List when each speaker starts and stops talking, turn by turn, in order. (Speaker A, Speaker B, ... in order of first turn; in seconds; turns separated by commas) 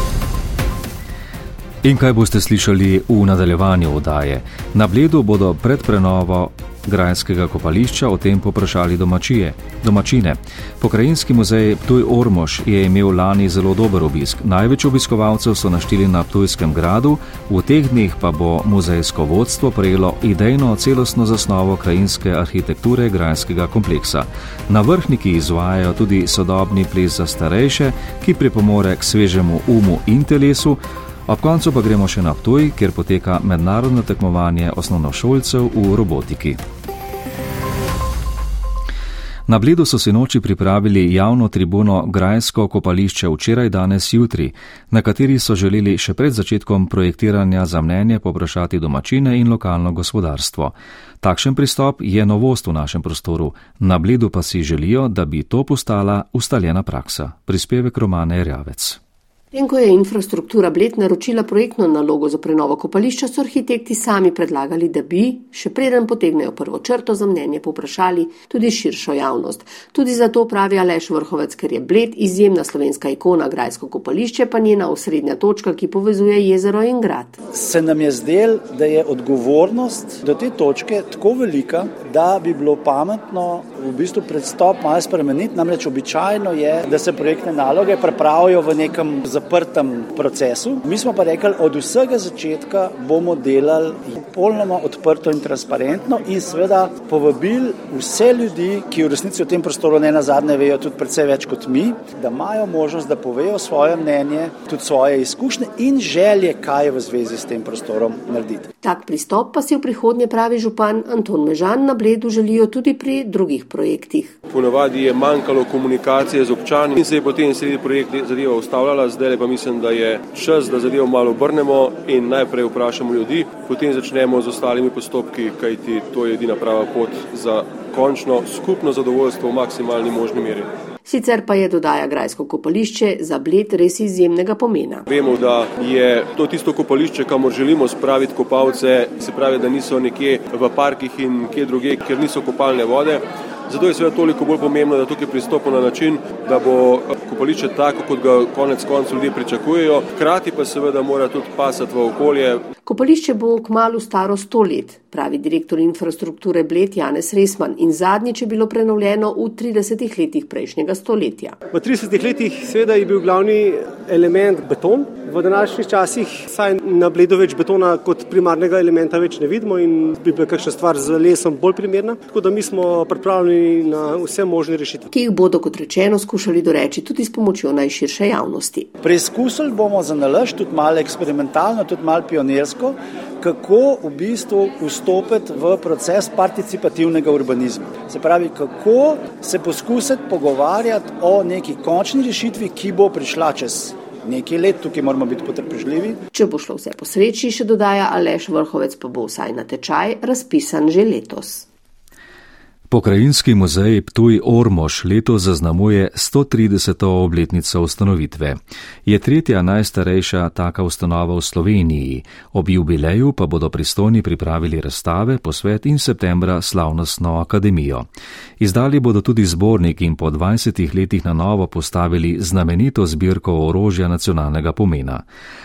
Speaker A: 1.8-36.6, Speaker A: 39.5-59.0, Speaker B: 59.5-77.4, Speaker C: 77.5-108.7, Speaker B: 108.8-114.4, Speaker D: 114.5-130.7, Speaker B: 131.1-135.1, Speaker D: 135.1-152.6, Speaker B: 152.8-161.6, Speaker E: 161.7-175.1, Speaker B: 175.1-178.9, Speaker C: 179.0-196.2, Speaker B: 196.3-201.7, Speaker A: 202.9-218.1, Speaker A: 218.6-225.2